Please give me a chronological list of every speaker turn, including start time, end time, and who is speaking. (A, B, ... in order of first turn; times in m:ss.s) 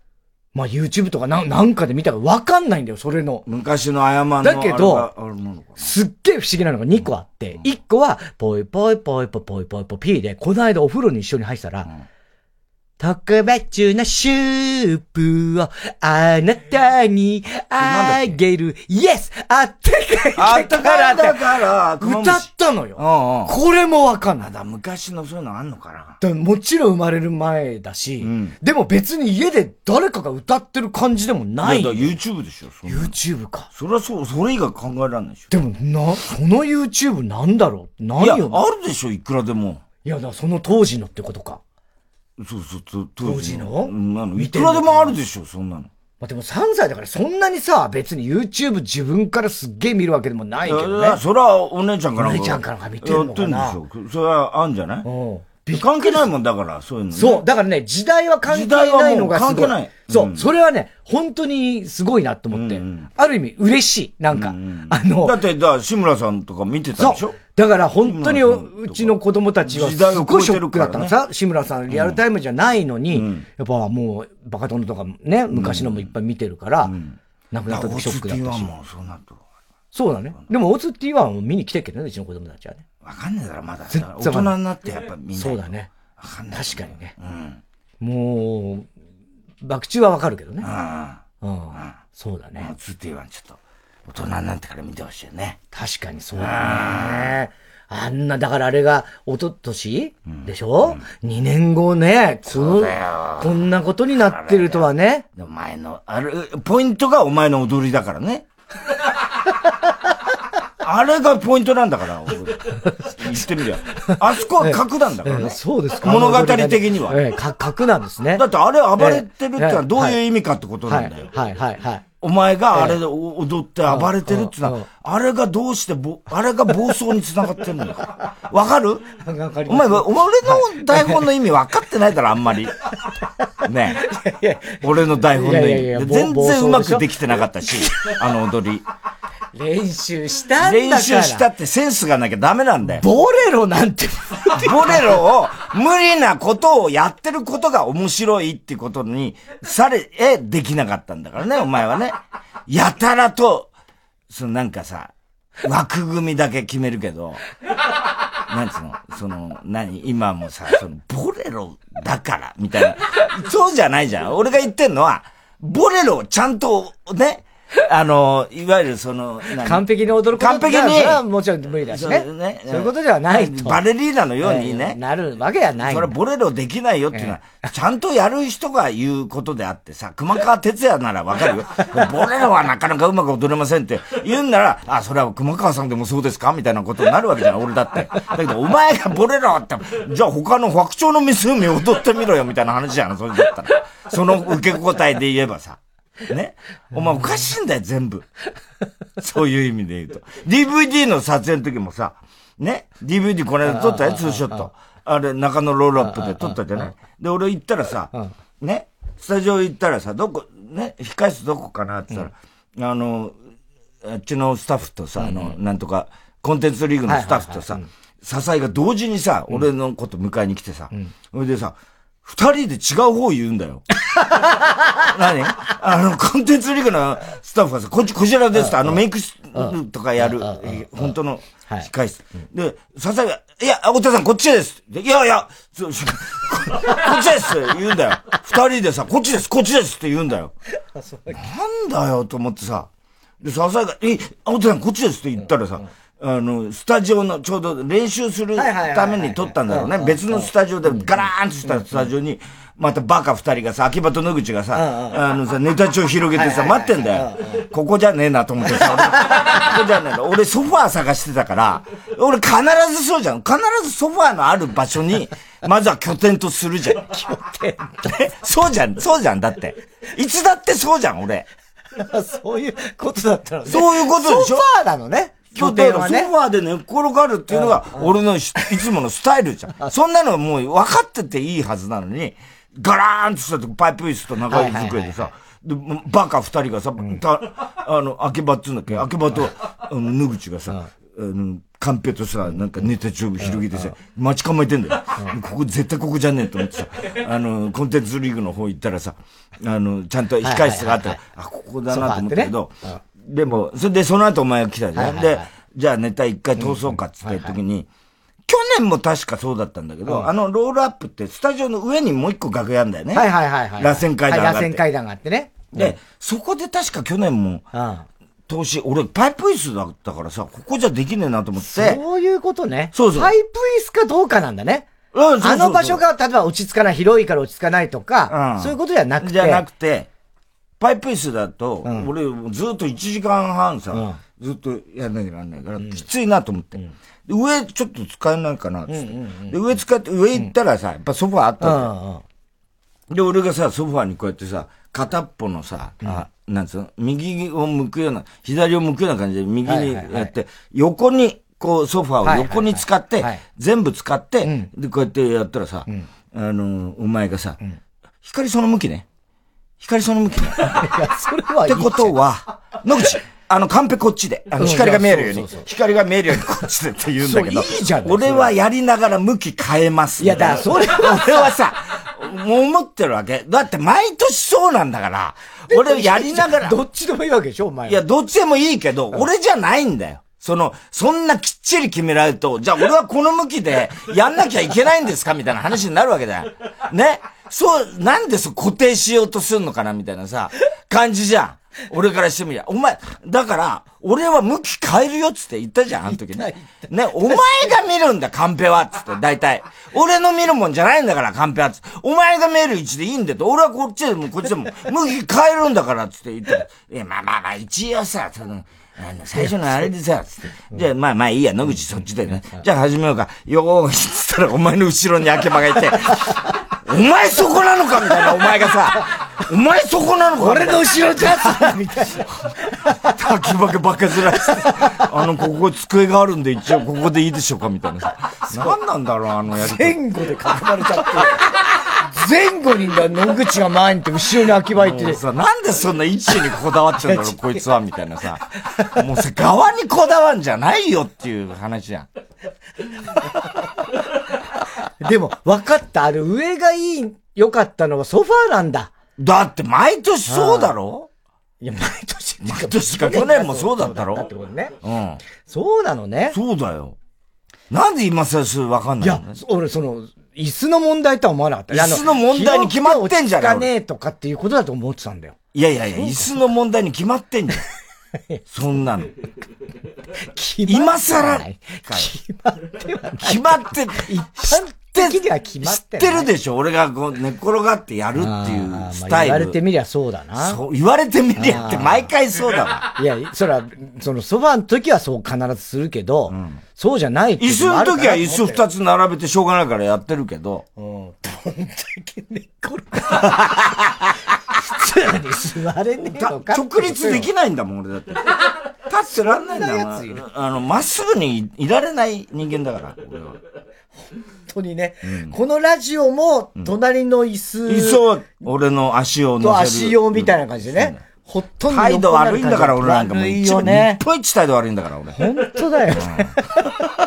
0:00.5-0:03.4 A
0:03.4-0:05.9 B
0:04.4-0:05.1 A
0:05.8-0:11.9 A
0:13.0-0:21.4 A
0:17.8-0:18.4 B
0:20.4-0:23.5 B
0:22.0-0:24.5 A
0:24.4-0:26.2 B
0:26.2-0:32.2 A
0:28.2-0:28.6 B
0:31.6-0:33.1 B
0:32.8-0:33.7 A
0:33.7-0:35.5 B
0:35.5-0:38.6 A
0:38.2-0:39.8 B
0:40.0-0:41.6 A
0:42.4-0:45.9 B
0:43.2-0:45.1 A
0:46.2-0:51.2 A
0:50.6-0:55.1 B
0:52.2-0:53.8 A
0:55.0-0:56.2 A
0:55.7-0:57.4 B
0:57.1-1:05.4 A
0:58.4-1:00.5 B
1:02.5-1:03.1 B
1:04.3-1:07.4 B
1:07.0-1:16.9 A
1:08.0-1:11.1 B
1:11.9-1:12.2 B
1:13.1-1:13.4 B
1:15.5-1:16.1 B
1:16.8-1:19.4 B
1:17.5-1:18.7 A
1:19.9-1:22.8 A
1:23.0-1:27.6 B
1:23.9-1:24.5 A
1:25.3-1:25.9 A
1:26.5-1:27.1 A
1:28.0-1:28.9 A
1:29.6-1:30.7 A
1:30.6-1:31.2 B
1:31.4-1:32.7 A
1:32.6-1:35.6 B
1:35.7-1:45.2 A
1:36.4-1:37.3 B
1:40.3-1:41.0 B
1:42.5-1:48.4 B
1:50.8-1:57.2 B
1:54.1-1:58.4 A
1:58.3-2:01.3 B
1:59.0-2:00.2 A
2:00.9-2:02.0 A
2:02.2-2:09.1 B
2:03.9-2:04.8 A
2:09.2-2:11.2 A
2:09.7-2:12.7 B
2:13.6-2:14.1 B
2:14.0-2:17.1 A
2:14.8-2:18.8 B
2:19.5-2:21.4 A
2:20.6-2:23.0 B
2:22.9-2:25.1 A
2:24.5-2:33.7 B
2:34.3-2:37.4 B
2:38.5-2:51.2 B
2:49.6-2:53.8 A
2:51.9-2:55.0 B
2:54.4-2:56.1 A
2:55.8-3:18.2 B
3:19.2-3:33.4 B
3:23.6-3:24.7 A
3:26.0-3:26.9 A
3:34.0-3:43.8 B
3:35.2-3:35.6 A
3:37.1-3:37.9 A
3:44.2-3:44.9 A
3:45.0-4:00.5 B
3:48.6-3:49.0 A
3:49.5-3:51.1 A
4:00.9-4:01.4 A
4:01.3-4:02.9 B
4:03.4-4:27.1 B
4:08.6-4:12.0 A
4:14.7-4:15.2 A
4:16.4-4:17.6 A
4:27.0-4:28.1 A
4:28.0-4:31.5 B
4:32.0-4:36.3 A
4:33.6-4:34.6 B
4:35.5-5:07.9 B
4:37.5-4:38.1 A
4:44.5-4:45.3 A
4:53.4-4:53.9 A
5:00.4-5:01.2 A
5:01.9-5:03.0 A
5:04.9-5:05.5 A
5:06.6-5:07.6 A
5:08.5-5:14.8 B
5:13.1-5:16.0 A
5:15.7-5:17.6 B
5:17.7-5:18.0 A
5:18.5-5:22.0 B
5:21.6-5:24.9 A
5:22.9-5:23.3 B
5:25.1-5:26.0 B
5:25.4-5:29.6 A
5:28.3-5:30.1 B
5:30.8-5:41.9 B
5:33.9-5:34.2 A
5:38.9-5:39.6 A
5:41.6-5:42.2 A
5:43.1-5:57.6 B
5:49.6-5:50.3 A
5:52.2-5:53.4 A
5:54.4-5:54.7 A
5:58.2-5:59.0 B
5:59.8-6:00.9 B
6:00.6-6:02.1 A
6:01.6-6:16.8 B
6:04.6-6:05.6 A
6:07.2-6:08.5 A
6:10.2-6:11.5 A
6:15.7-6:18.0 A
6:17.8-7:01.7 B
6:36.1-6:37.7 A
7:00.4-7:02.3 A
7:03.1-7:10.0 B
7:08.5-7:08.8 A
7:09.6-7:15.2 A
7:14.7-7:22.1 B
7:17.0-7:17.5 A
7:25.0-7:28.9 A
7:29.2-7:31.1 B
7:30.3-7:30.7 A
7:31.6-7:34.7 A
7:32.4-7:34.3 B
7:34.8-7:35.2 B
7:35.4-7:36.4 A
7:36.3-7:37.0 B
7:37.7-7:39.4 B
7:39.0-7:45.4 A
7:41.7-7:43.7 B
7:45.5-7:47.6 B
7:46.0-7:46.3 A
7:48.5-7:49.1 B
7:50.3-7:56.3 A
7:50.7-7:52.1 B
7:53.2-7:59.6 B
7:58.2-8:00.6 A
8:00.4-8:02.8 B
8:01.4-8:02.1 A
8:03.0-8:08.6 A
8:06.3-8:06.6 B
8:07.4-8:10.6 B
8:10.8-8:13.7 A
8:14.6-8:17.3 A
8:16.1-8:23.4 B
8:19.5-8:20.2 A
8:24.5-8:28.0 A
8:25.0-8:25.4 B
8:27.6-8:31.0 B
8:29.4-8:34.0 A
8:31.7-8:35.3 B
8:35.2-8:36.7 A
8:35.9-8:36.3 B